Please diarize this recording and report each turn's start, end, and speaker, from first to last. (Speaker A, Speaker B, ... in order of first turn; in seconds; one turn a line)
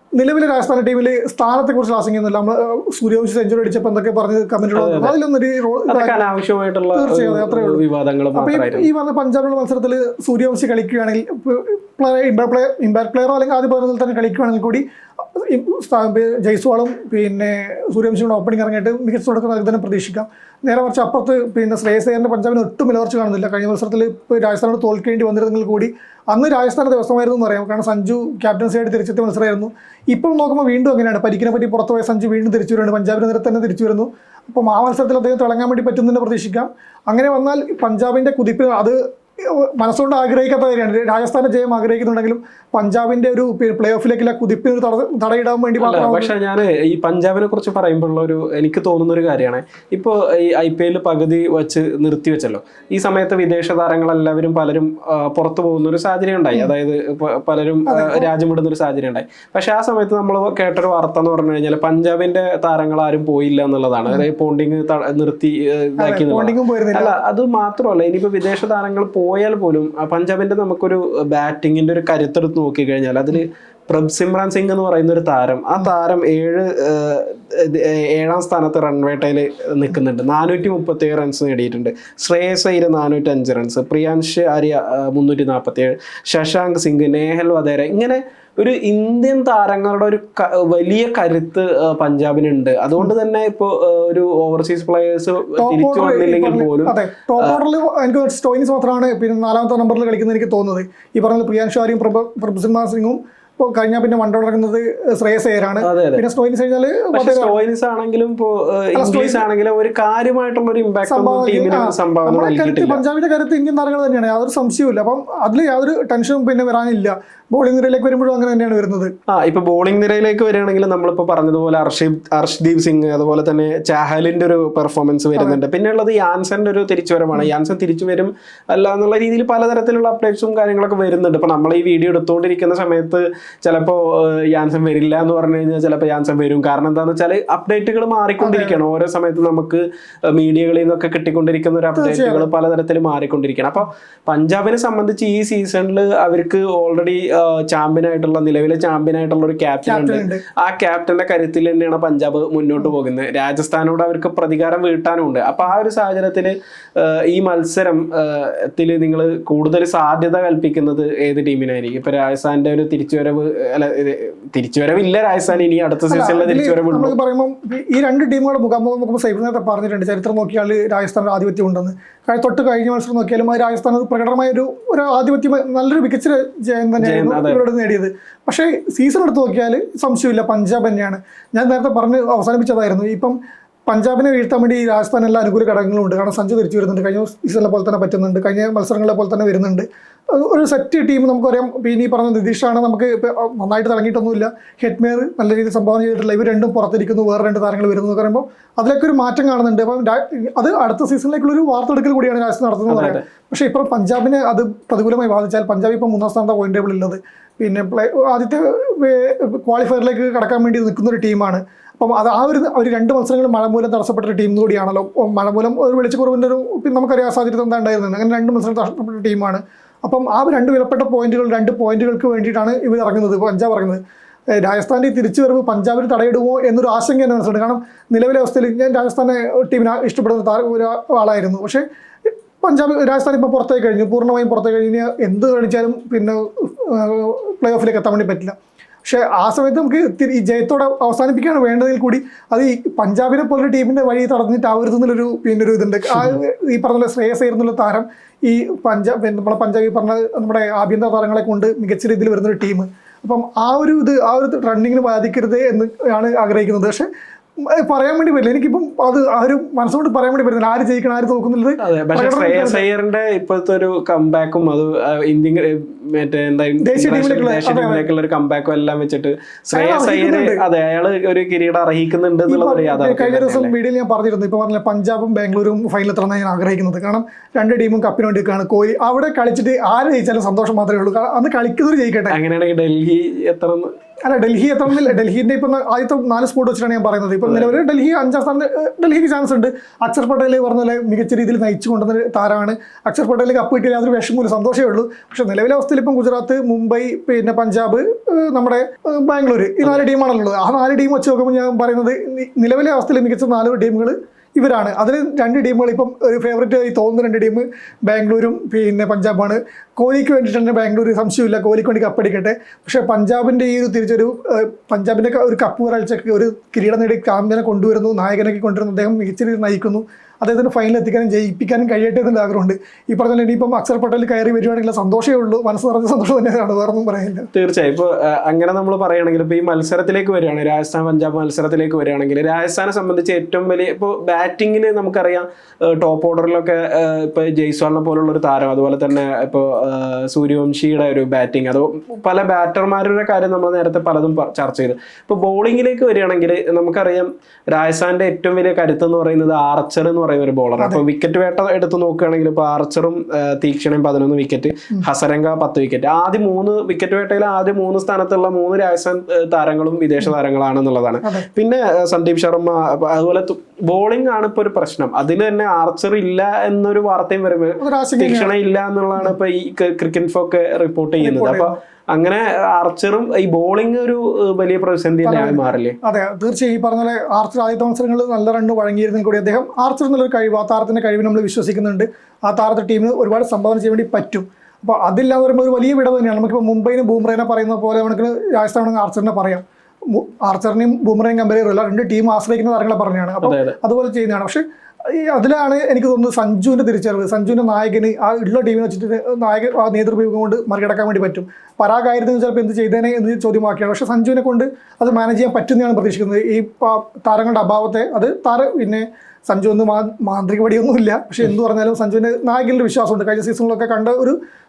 Speaker A: 0.2-6.2
Speaker B: 4.8-5.2
Speaker B: 5.9-8.9
Speaker A: 7.0-7.8
Speaker A: 8.3-46.3
Speaker B: 45.8-97.6
Speaker A: 57.9-58.3
Speaker A: 66.0-67.2
Speaker A: 95.6-107.6
Speaker B: 105.8-106.2
Speaker B: 107.1-113.0
Speaker A: 109.0-109.4
Speaker A: 111.1-119.1
Speaker B: 119.3-167.2
Speaker A: 138.4-138.8
Speaker A: 142.0-142.5
Speaker A: 149.9-150.4
Speaker A: 165.5-183.4
Speaker B: 177.0-177.6
Speaker A: 183.9-224.0
Speaker B: 202.9-203.2
Speaker A: 224.5-257.1
Speaker A: 257.6-262.9
Speaker B: 261.8-273.7
Speaker A: 266.8-268.1
Speaker A: 269.7-270.6
Speaker A: 272.5-282.4
Speaker B: 282.3-283.9
Speaker A: 284.2-327.5
Speaker B: 287.4-287.8
Speaker B: 299.8-300.1
Speaker B: 327.5-376.0
Speaker A: 350.8-351.0
Speaker A: 367.8-368.6
Speaker A: 371.2-371.8
Speaker A: 375.2-414.4
Speaker B: 393.4-393.8